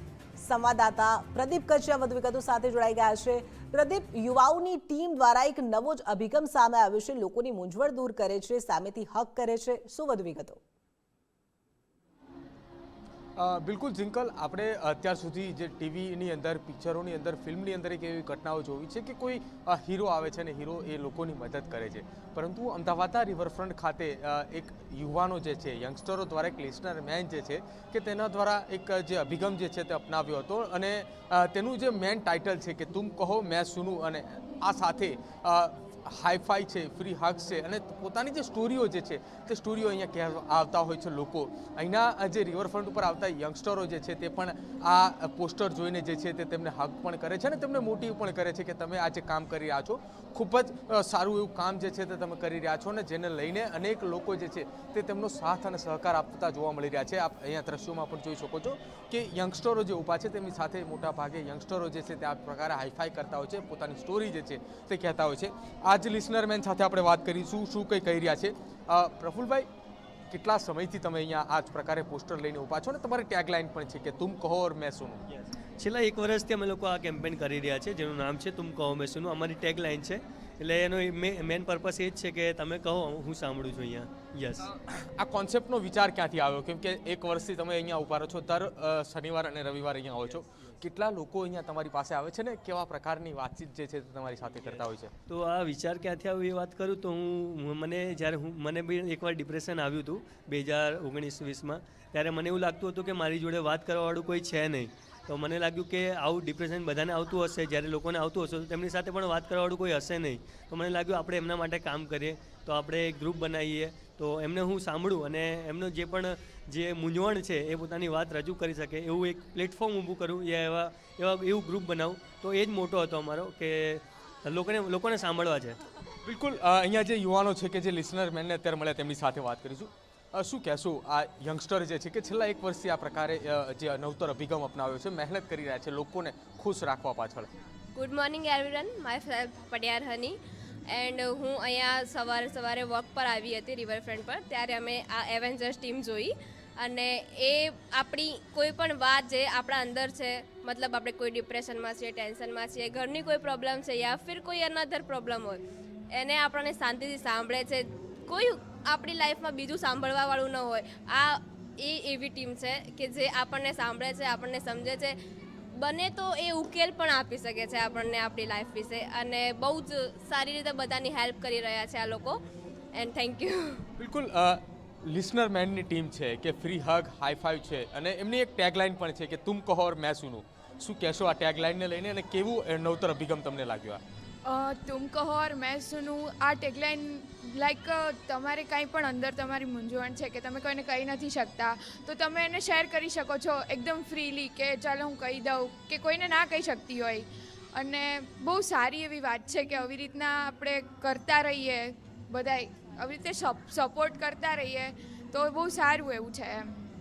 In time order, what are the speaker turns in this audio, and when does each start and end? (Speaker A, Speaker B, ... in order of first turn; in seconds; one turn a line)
Speaker A: 0.3-10.6
Speaker B: 13.3-69.7
Speaker B: 70.3-75.2
Speaker C: 75.3-84.7
Speaker B: 84.6-95.1
Speaker C: 95.3-125.8
Speaker B: 126.2-137.5
Speaker D: 137.9-140.4
Speaker D: 140.9-155.6
Speaker D: 156.1-165.1
Speaker D: 165.8-172.4
Speaker D: 172.9-173.9
Speaker B: 174.0-184.0
Speaker E: 184.4-206.7